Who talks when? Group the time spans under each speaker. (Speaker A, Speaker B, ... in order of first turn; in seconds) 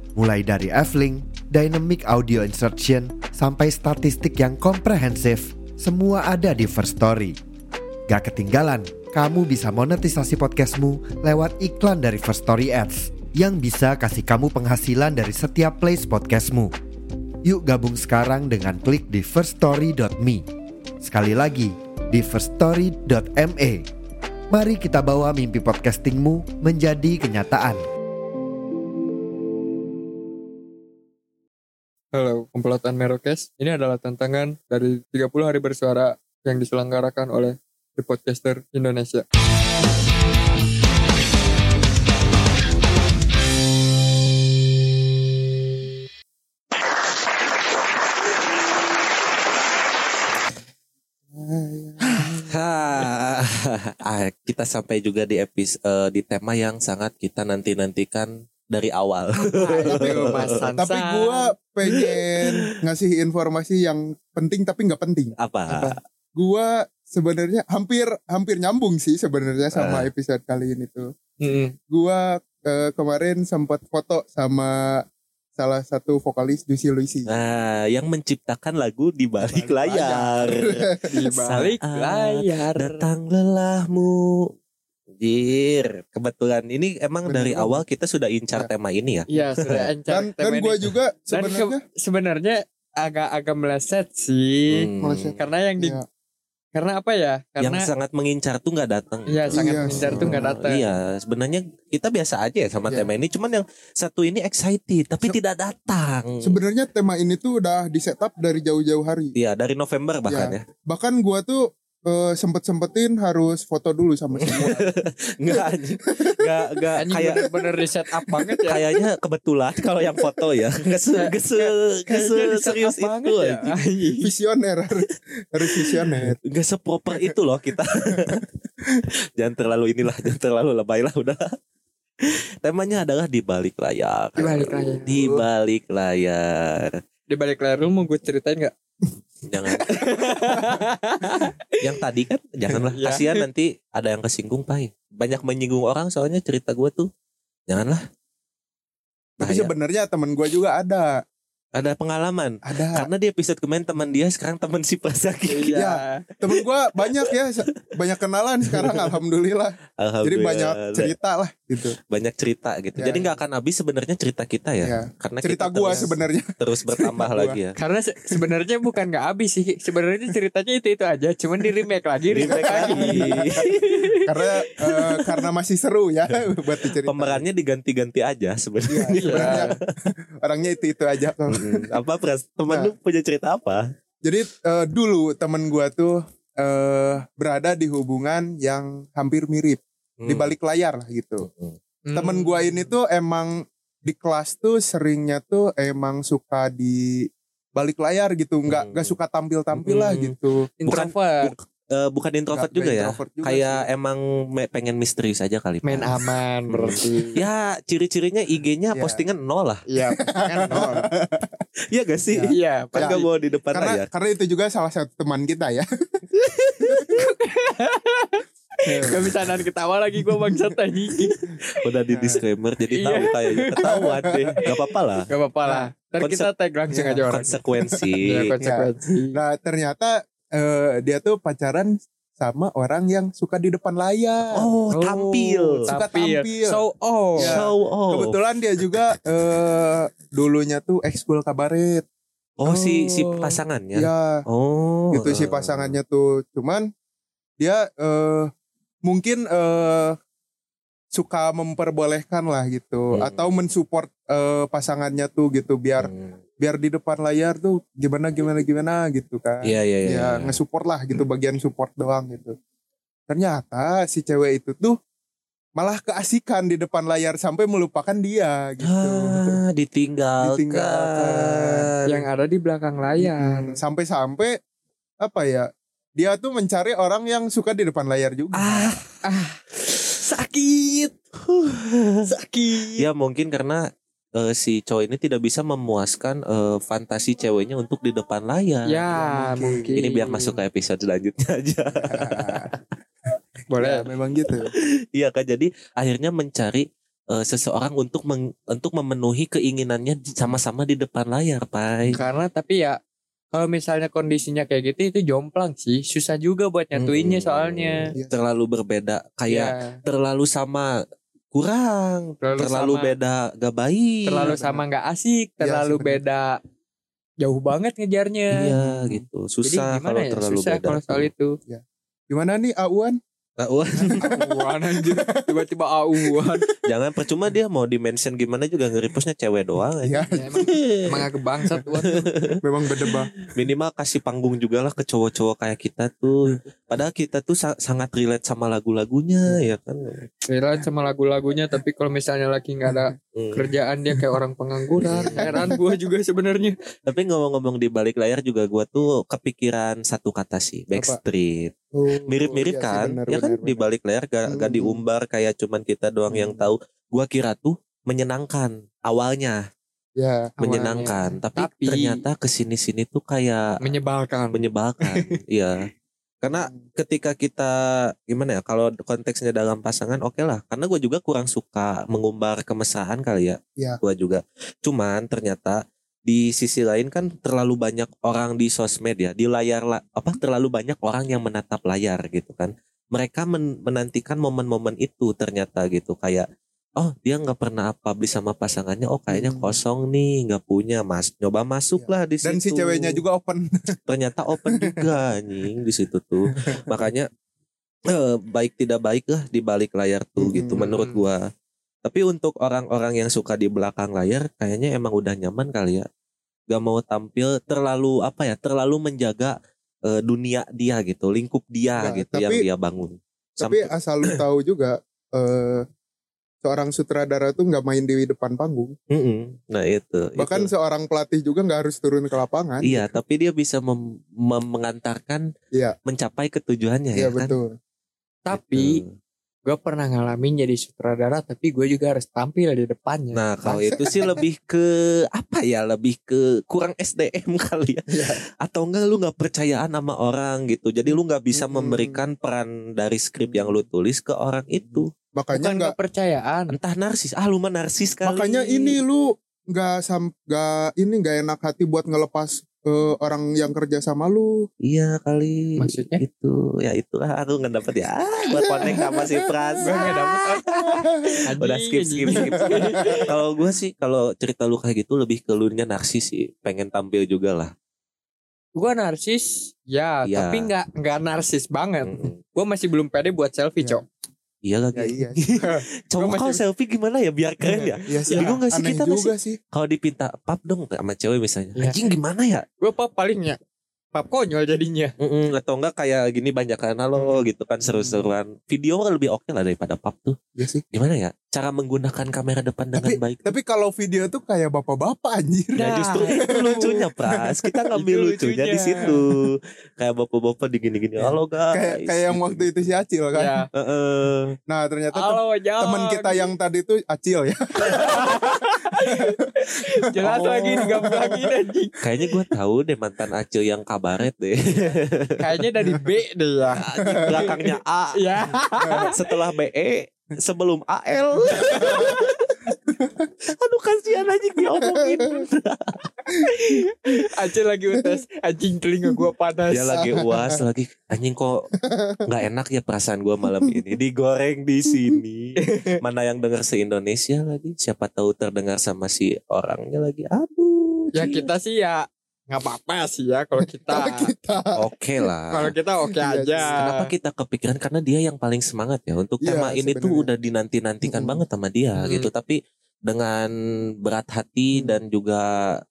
Speaker A: 0.1-7.4, 8.1-16.7, 17.4-20.4, 21.0-23.9, 24.5-27.8
Speaker B: 32.1-39.2, 59.6-61.5, 71.4-71.7, 81.1-83.1, 89.3-90.8, 91.3-96.0, 96.7-97.9, 99.3-100.8, 117.0-118.9, 121.2-124.3, 134.4-135.2, 137.3-138.7, 139.9-141.7, 142.9-143.3, 155.5-156.2, 167.8-174.3, 175.0-175.4, 179.1-179.8, 192.0-192.9, 200.8-201.5, 205.8-207.4, 209.9-211.1, 212.5-213.2, 216.5-221.4, 222.9-223.8, 225.3-227.6, 228.2-229.4, 234.9-237.6, 242.6-243.5, 272.1-273.8, 279.2-281.1, 282.2-283.1, 288.9-290.5, 293.7-294.1, 302.1-303.0, 303.5-308.1, 309.5-310.0, 312.4-313.1, 314.2-316.6, 317.4-318.8, 319.6-321.6, 324.2-326.7, 330.3-332.3, 340.5-346.7, 360.6-362.2, 363.8-365.2, 400.8-401.2, 428.4-429.0, 429.6-433.7, 445.5-446.8, 455.8-456.2, 459.8-463.2, 468.8-474.0, 475.6-476.6, 477.6-478.5, 482.8-483.6, 484.1-485.1, 495.8-496.4, 497.9-499.2, 503.3-503.7, 505.1-506.5, 507.8-512.0, 515.4-517.5, 518.1-519.1, 521.6-522.3, 526.6-530.1, 535.6-536.0, 541.1-544.3, 545.5-547.1, 552.0-552.3
Speaker C: 51.3-52.5, 59.8-71.1, 71.9-75.0, 75.6-77.3, 79.4-81.1, 87.2-87.8, 90.1-91.8, 95.0-96.0, 99.5-100.4, 106.4-109.3, 110.3-117.5, 118.3-118.7, 124.2-126.3, 149.4-151.2, 152.7-153.1, 155.7-162.0, 162.9-163.3, 164.8-167.6, 172.4-173.7, 174.2-177.4, 178.9-179.8, 180.4-181.9, 182.7-182.9, 184.2-191.5, 192.1-200.7, 202.5-203.9, 208.9-209.2, 210.2-211.4, 212.3-215.8, 218.8-219.3, 222.1-222.4, 223.9-224.5, 226.9-227.2, 227.8-234.7, 235.9-236.8, 237.4-242.0, 243.9-244.4, 245.1-246.9, 247.6-248.5, 249.0-250.2, 251.1-262.5, 263.3-265.0, 265.8-269.6, 270.4-271.9, 273.2-274.6, 275.2-278.9, 289.1-290.0, 292.0-292.7, 293.8-294.7, 314.4-314.9, 315.6-316.2, 318.8-319.2, 321.7-323.2, 324.1-325.6, 326.2-326.7, 330.0-330.8, 332.6-333.3, 345.0-345.8, 350.9-351.2, 351.9-353.9, 354.5-355.0, 356.3-356.7, 360.2-360.5, 366.5-366.8, 389.3-389.7, 392.0-393.7, 394.6-395.1, 396.6-397.1, 400.4-400.9, 412.0-412.7, 413.6-415.8, 416.6-418.9, 420.4-423.1, 427.1-427.7, 438.1-438.4, 441.5-442.2, 443.4-443.8, 444.9-445.9, 448.2-454.7, 458.5-460.0, 460.9-461.4, 462.7-463.2, 474.9-475.4, 478.1-479.6, 490.6-490.8, 492.9-495.9, 496.4-497.8, 499.0-499.2, 501.7-503.6, 504.7-509.3, 510.9-511.4, 517.2-517.5, 518.8-519.1, 521.7-522.2, 523.0-523.2, 524.8-525.5, 529.9-530.6, 531.8-532.2, 543.6-544.8, 546.1-546.8, 549.4-550.3, 551.0-551.4
Speaker D: 52.0-60.5, 65.4-65.9, 69.7-70.1, 77.3-84.5, 85.2-89.8, 94.7-95.4, 97.6-106.6, 109.3-110.6, 114.4-117.5, 118.3-123.8, 125.8-128.4, 129.4-131.4, 132.2-137.0, 139.4-140.0, 141.8-147.1, 147.7-148.0, 149.4-149.7, 151.7-155.8, 158.9-159.1, 160.0-161.1, 162.1-167.7, 172.3-173.6, 177.0-179.8, 181.5-183.8, 190.2-190.5, 191.5-191.8, 198.7-199.2, 199.8-200.3, 200.9-206.1, 206.7-209.8, 211.9-214.1, 221.8-225.3, 226.2-226.5, 227.3-228.4, 234.5-235.8, 237.4-238.4, 242.6-245.9, 253.1-253.4, 256.0-256.4, 259.6-260.6, 268.8-271.9, 278.5-279.2, 281.5-282.2, 283.0-283.8, 284.3-289.0, 289.9-292.7, 294.8-302.2, 306.9-310.9, 311.5-314.5, 318.5-321.3, 323.6-324.1, 326.9-331.1, 331.9-332.6, 333.5-340.1, 343.3-343.6, 345.0-345.6, 347.1-351.7, 352.3-359.6, 360.6-363.7, 364.5-365.8, 366.4-367.8, 368.3-386.4, 387.0-393.2, 394.1-397.3, 398.1-401.4, 402.0-406.1, 406.7-409.6, 410.1-414.3, 419.1-420.7, 422.8-425.5, 426.1-427.6, 428.5-429.1, 433.3-445.1, 446.7-449.0, 454.8-467.7, 470.2-470.7, 472.1-472.4, 474.6-482.6, 485.2-490.4, 490.9-493.5, 495.8-502.8, 503.8-504.5, 510.2-510.9, 512.0-515.3, 516.8-518.2, 519.1-522.3, 523.5-526.0, 529.7-531.7, 532.2-541.5, 544.8-545.7, 546.7-553.5, 554.0-555.7